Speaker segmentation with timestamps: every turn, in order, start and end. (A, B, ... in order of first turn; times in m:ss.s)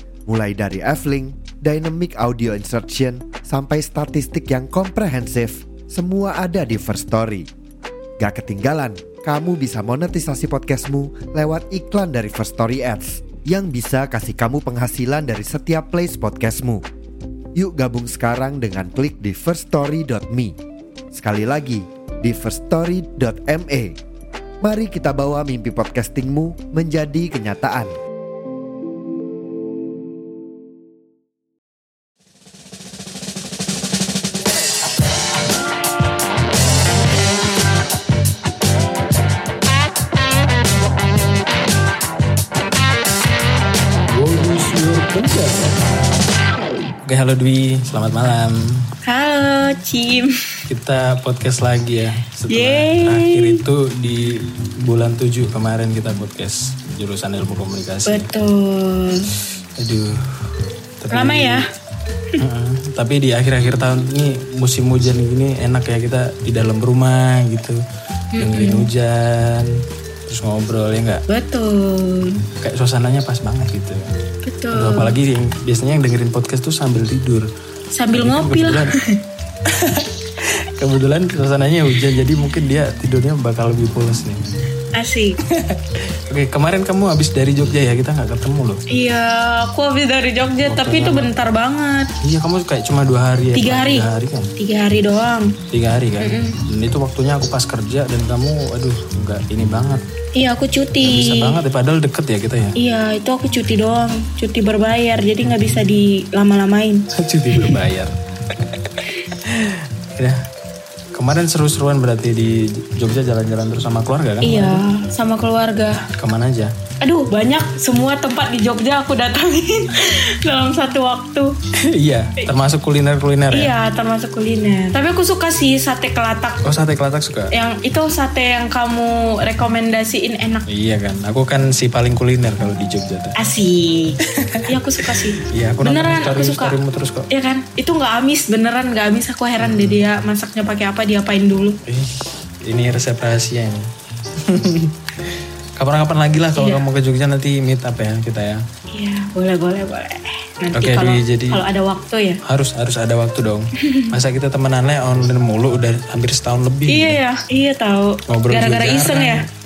0:00.3-0:07.5 A
0:08.2-0:16.8 A
0:17.6-0:20.5 A
0:21.1-0:24.0 A
0:24.6-0:27.9 A
0:44.1-0:45.8 B
0:47.0-0:48.8 B
0:49.0-0:50.3 C
0:50.7-0:58.3 B
0:52.5-0:53.5 C
0:58.0-0:59.3 C
0:59.8-1:00.2 B
1:01.0-1:01.6 B
1:01.1-1:01.6 C
1:02.4-1:07.8 B
1:08.3-1:08.9 C
1:08.4-1:09.7 B
1:10.3-1:11.2 B
1:11.3-1:12.4 C
1:12.6-1:14.0 B
1:14.4-1:15.1 C
1:14.7-1:17.5 B
1:17.9-1:19.2 C
1:18.1-1:18.9 B
1:19.6-1:20.1 B
1:20.8-1:24.4 B
1:24.9-1:25.4 C
1:25.5-1:28.8 B
1:28.9-1:32.1 C
1:30.6-1:31.3 B
1:32.2-1:34.5 B
1:33.5-1:35.6 C
1:35.7-1:40.0 B
1:36.2-1:36.6 C
1:40.4-1:41.6 C
1:41.0-1:42.7 B
1:42.8-1:47.8 C
1:47.2-1:50.4 B
1:51.1-1:54.8 B
1:54.4-1:56.0 C
1:56.1-1:56.7 B
1:57.0-2:01.5 C
2:01.9-2:03.7 B
2:03.5-2:06.6 C
2:06.6-2:07.5 B
2:07.5-2:10.7 C
2:10.7-2:13.3 B
2:13.4-2:16.8 C
2:15.5-2:17.3 B
2:17.3-2:21.8 C
2:19.6-2:20.0 B
2:21.8-2:23.9 B
2:24.4-2:28.6 B
2:26.5-2:26.8 C
2:28.9-2:32.4 C
2:30.7-2:31.6 B
2:32.4-2:37.2 B
2:33.8-2:34.1 C
2:36.9-2:39.4 C
2:38.3-2:39.4 B